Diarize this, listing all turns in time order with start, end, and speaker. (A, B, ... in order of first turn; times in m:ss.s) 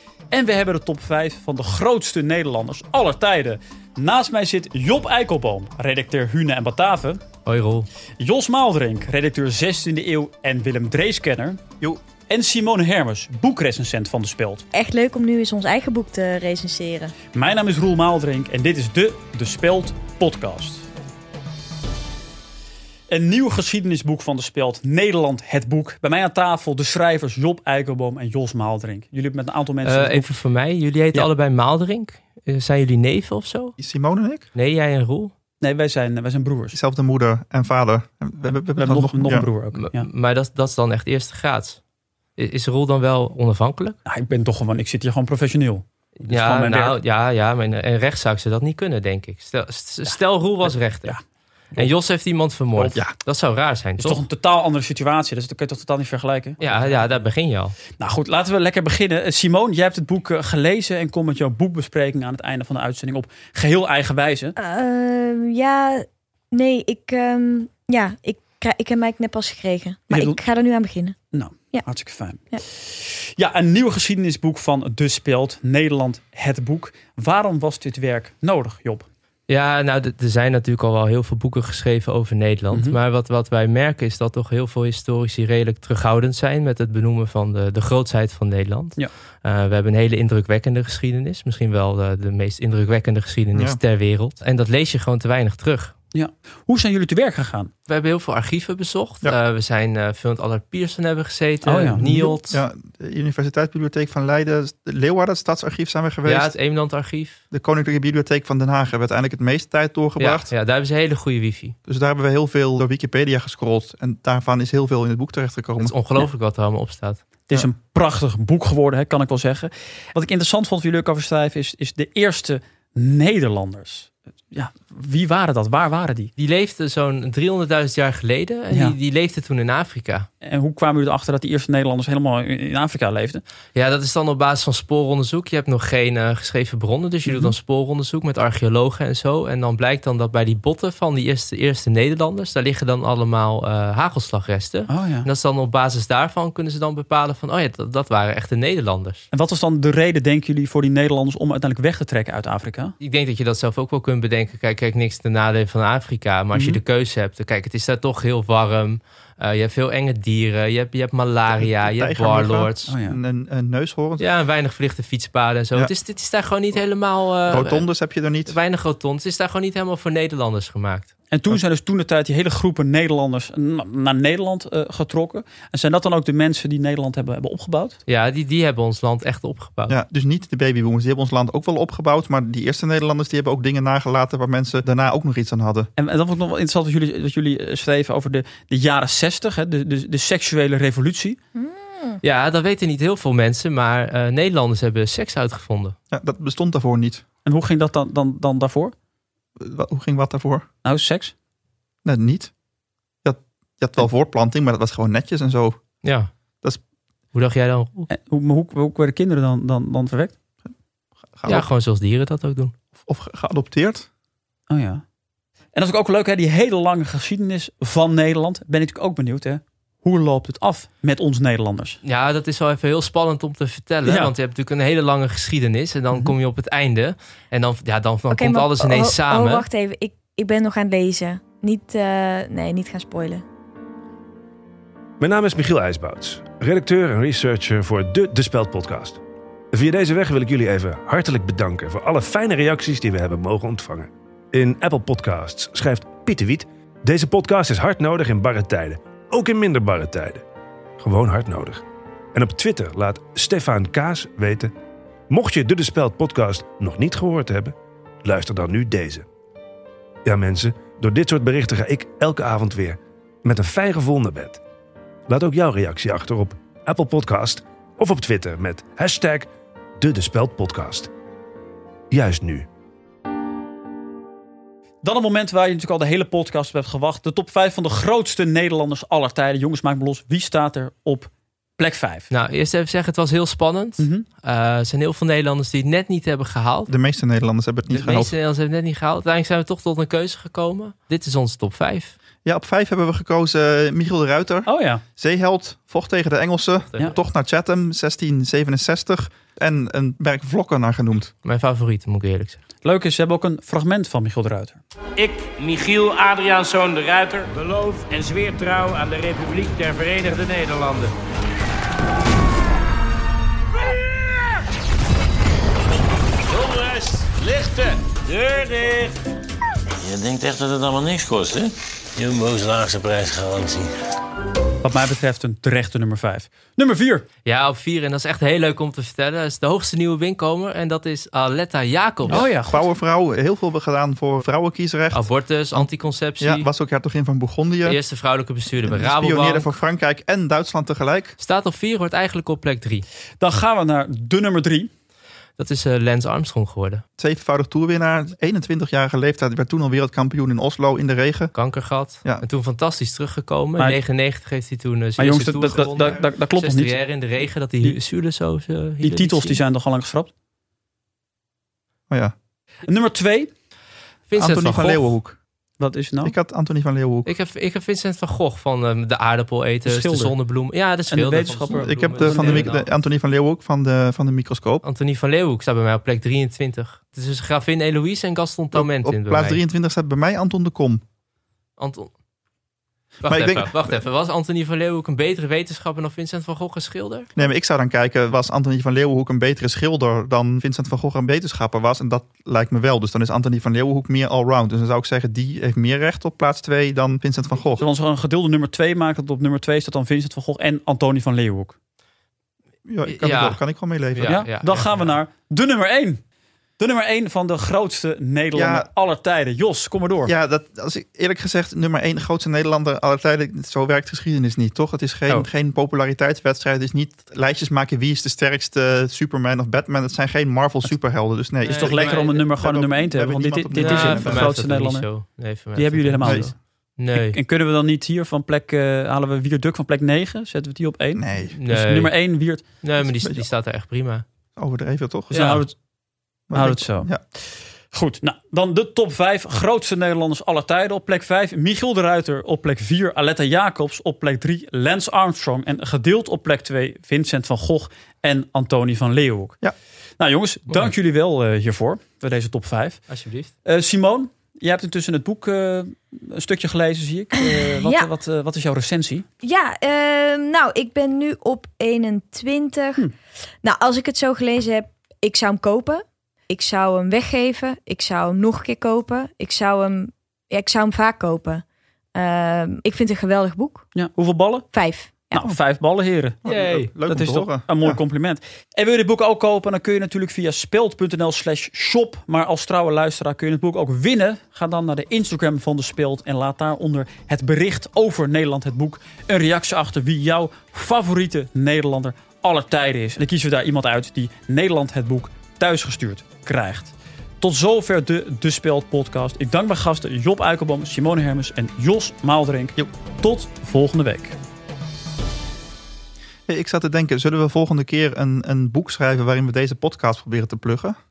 0:00.3-0:07.2 A
0:07.4-0:07.9 B
0:08.2-0:11.6 A
0:12.3-0:14.6 A
0:14.7-0:17.2 C
0:17.3-0:20.9 A
0:23.1-0:30.3 A
0:29.8-0:33.8 B
0:33.8-0:34.5 D
0:34.5-0:35.3 B
0:35.6-0:36.8 A
0:36.7-0:39.5 D
0:38.7-0:40.1 A
0:39.8-0:41.8 B
0:42.4-0:44.0 B
0:44.1-0:47.0 A
0:46.2-0:51.2 B
0:50.9-0:51.2 A
0:51.7-0:54.2 B
0:54.0-0:57.0 A
0:56.6-0:57.8 B
0:58.0-1:04.6 A
1:04.6-1:11.2 C
1:10.1-1:10.4 A
1:11.3-1:19.1 A
1:19.5-1:35.9 B
1:22.7-1:23.0 A
1:33.5-1:33.8 D
1:36.1-1:37.7 A
1:37.9-1:42.6 B
1:41.6-1:42.3 A
1:42.5-1:46.5 D
1:46.2-1:47.4 B
1:47.5-1:50.5 D
1:50.2-1:51.8 B
1:51.9-1:56.0 D
1:55.8-1:57.2 B
1:57.5-2:06.3 A
2:06.4-2:10.3 B
2:10.4-2:13.4 A
2:13.7-2:29.3 B
2:17.3-2:17.5 A
2:24.9-2:25.3 A
2:29.3-2:32.9 A
2:33.0-2:42.9 B
2:36.5-2:36.8 A
2:41.5-2:44.3 D
2:42.9-2:43.2 A
2:44.2-2:47.9 B
2:47.5-2:48.6 D
2:48.5-2:51.1 B
2:51.3-2:58.0 A
2:58.1-3:00.0 B
2:59.9-3:05.9 D
3:06.0-3:11.4 A
3:12.2-3:16.0 B
3:16.1-3:17.2 D
3:17.4-3:18.9 A
3:19.6-3:20.7 D
3:20.8-3:21.3 A
3:22.0-3:22.5 D
3:23.2-3:25.8 D
3:26.0-3:26.3 B
3:27.3-3:28.1 B
3:28.1-3:30.3 A
3:31.4-3:31.7 D
3:31.5-3:32.7 B
3:33.0-3:34.1 D
3:34.7-3:35.0 A
3:35.8-3:42.0 A
3:42.0-3:49.7 B
3:44.0-3:44.3 A
3:48.3-3:53.4 C
3:55.2-3:59.2 E
3:59.7-4:10.4 E
4:11.0-4:11.8 E
4:12.3-4:14.7 E
4:15.3-4:19.3 E
4:20.3-4:24.6 E
4:25.3-4:29.5 E
4:30.0-4:31.1 E
4:32.1-4:32.7 E
4:35.0-4:42.3 A
4:42.3-4:46.9 B
4:44.0-4:44.3 A
4:46.9-4:48.3 D
4:47.9-4:52.2 B
4:52.4-5:01.3 D
4:54.7-4:55.0 A
4:56.9-4:57.2 B
5:01.4-5:02.6 B
5:02.8-5:04.8 A
5:05.2-5:11.1 F
5:16.5-5:19.2 F
5:20.0-5:23.9 G
5:24.8-5:27.3 A
5:27.4-5:32.5 B
5:32.3-5:32.8 A
5:32.3-5:38.0 D
5:35.1-5:36.7 B
5:37.8-5:39.8 B
5:38.8-5:41.4 D
5:41.4-5:43.1 B
5:43.4-5:44.9 A
5:45.6-5:47.0 B
5:47.2-5:51.6 D
5:51.5-5:59.6 B
5:55.2-5:57.0 A
5:59.0-6:00.3 A
6:02.9-6:03.5 A
6:04.3-6:05.2 B
6:04.4-6:05.4 D
6:05.8-6:06.4 A
6:06.2-6:07.3 D
6:07.3-6:12.9 B
6:09.8-6:10.4 A
6:11.1-6:12.7 A
6:11.8-6:14.8 D
6:14.8-6:19.6 B
6:18.7-6:21.0 D
6:21.8-6:22.1 B
6:23.2-6:27.3 B
6:23.3-6:23.8 D
6:27.4-6:37.8 D
6:37.6-6:41.7 A
6:42.9-6:44.5 D
6:43.0-6:43.6 B
6:44.1-6:45.2 B
6:44.2-6:46.2 A
6:46.8-6:50.3 A
6:48.5-6:48.9 D
6:50.3-7:04.5 D
7:01.6-7:02.4 B
7:01.7-7:05.1 A
7:03.8-7:07.4 B
7:05.8-7:06.6 A
7:07.1-7:12.6 A
7:11.2-7:11.6 D
7:11.4-7:12.1 B
7:12.8-7:14.2 B
7:13.0-7:13.5 D
7:14.6-7:15.4 D
7:15.3-7:15.6 B
7:15.3-7:15.7 A
7:16.5-7:17.2 D
7:16.5-7:29.6 A
7:30.2-7:33.0 A
7:33.1-7:33.5 B
7:33.6-7:39.3 A
7:39.4-7:43.0 C
7:43.6-7:51.6 C
7:52.2-7:53.8 C
7:53.9-7:54.7 A
7:54.7-7:55.4 C
7:55.3-7:56.4 A
7:56.4-7:58.0 D
7:56.4-7:56.9 B
7:57.0-8:24.4 A
8:26.5-8:31.0 D